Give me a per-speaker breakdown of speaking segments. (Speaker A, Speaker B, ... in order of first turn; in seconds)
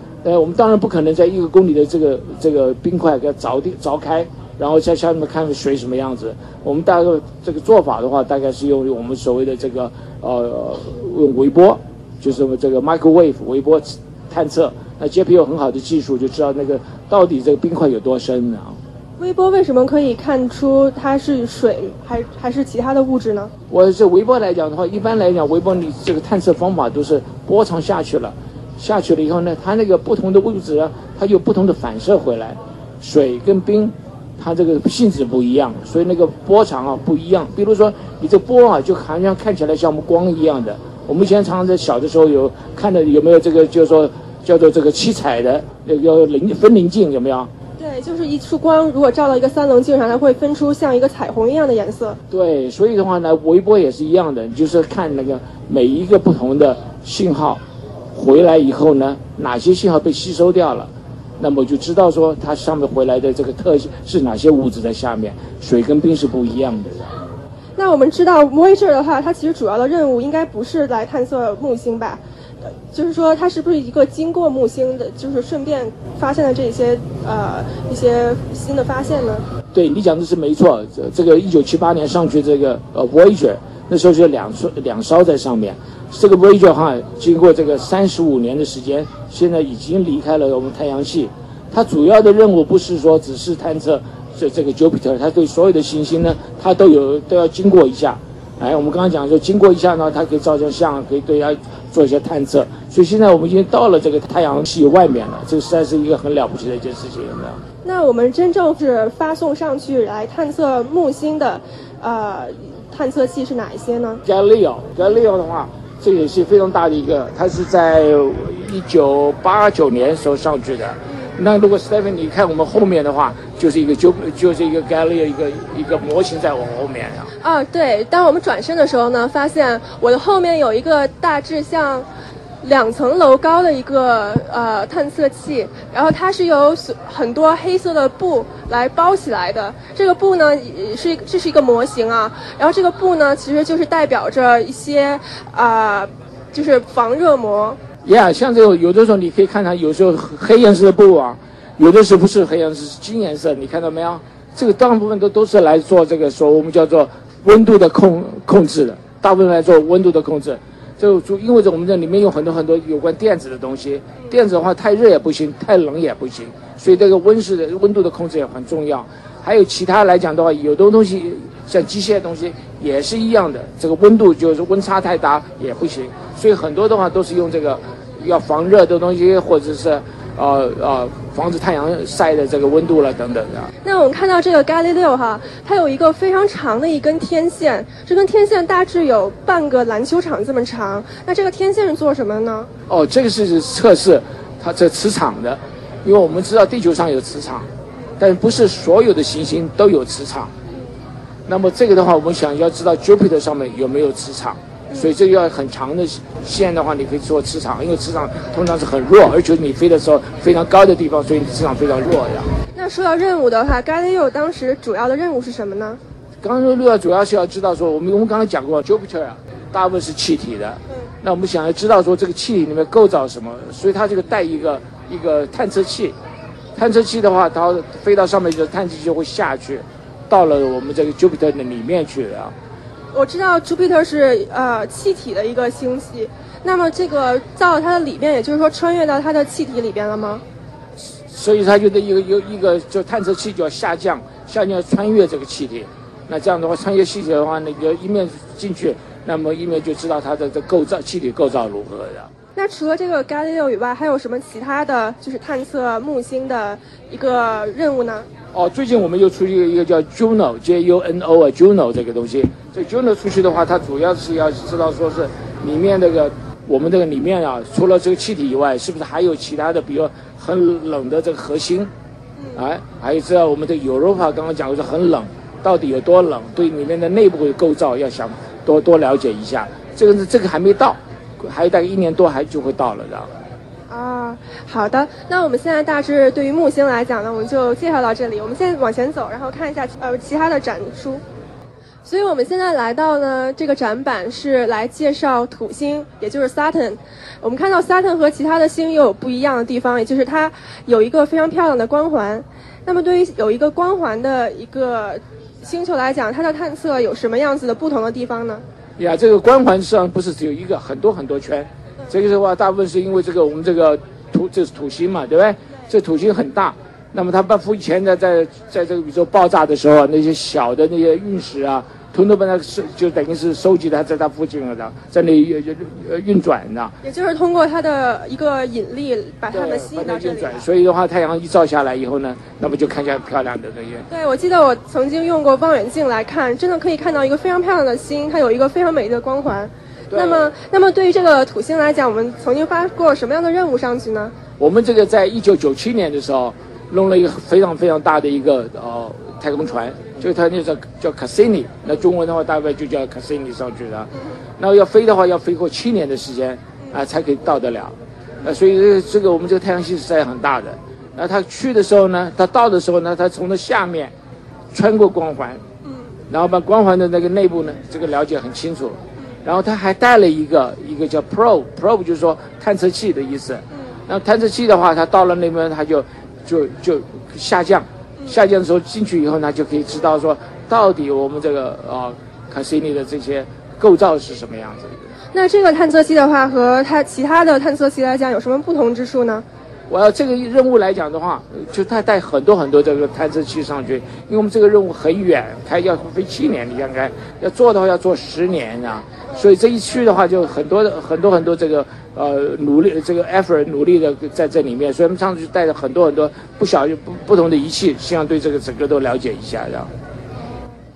Speaker A: 0.2-18.8, 23.7-47.5, 52.3-57.6, 58.1-67.1, 79.7-107.6, 114.3-127.3, 148.0-183.7, 192.9-197.7, 198.2-200.5, 201.5-212.5, 216.4-226.2, 226.8-232.6, 241.3-252.3, 258.5-271.9, 272.6-283.3, 309.0-326.9, 329.5-334.1, 340.1-340.5, 344.6-364.1, 364.7-365.6, 366.3-385.0, 389.9-409.9
Speaker B: 19.2-23.5, 47.8-52.2, 67.8-72.2, 72.9-79.5, 107.8-114.2, 127.4-132.1, 132.6-147.8, 183.8-192.7, 212.8-216.0, 233.1-240.4, 252.6-258.3, 283.9-291.2, 292.1-308.6, 327.0-330.6, 334.1-344.3, 385.3-389.4